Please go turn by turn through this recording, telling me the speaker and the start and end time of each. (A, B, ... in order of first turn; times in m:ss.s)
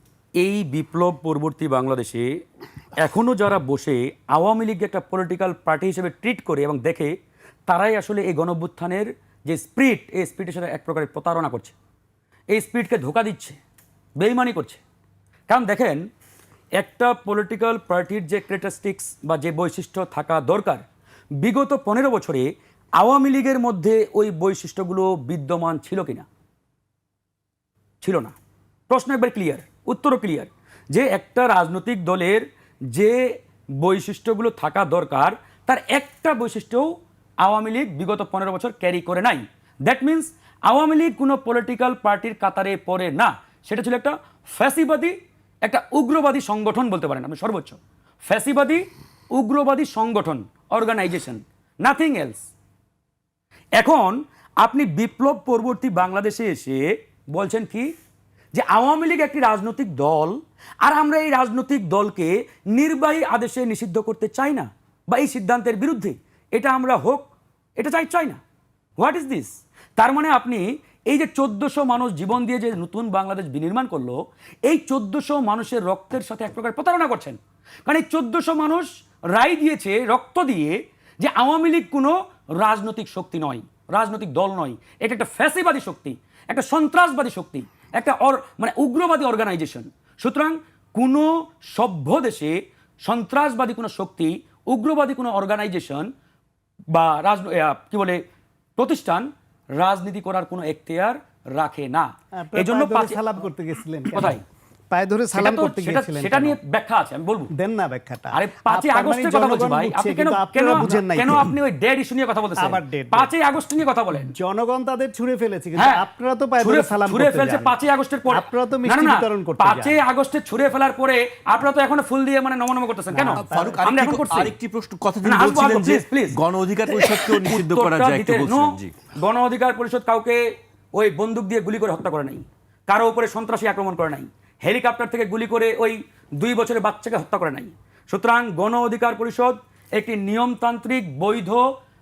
0:00.4-0:02.4 A
0:03.0-0:07.2 A
0:07.7-0:11.8 A
0:12.5-0:13.6 A
0:14.2-0:14.8 A
0:15.5-0:16.1 A
0:16.8-0:20.8 A
0:21.4-0:26.3 A
0:28.0-0:28.4 A
0:28.9-0:36.9 A
0:37.4-0:52.5 A
0:53.8-0:57.9 A
0:58.5-1:08.4 A
1:09.0-1:36.1 A
1:36.9-1:38.2 A
1:38.8-1:43.3 A
1:42.4-1:46.6 B
1:44.1-1:44.4 A
1:45.4-1:47.5 A
1:47.5-1:51.6 B
1:48.3-1:54.4 A
1:52.6-1:53.3 B
1:54.3-2:00.0 B
1:55.8-1:56.0 A
1:56.6-2:04.6 A
2:03.1-2:03.8 B
2:03.3-2:09.0 C
2:05.2-2:21.7 A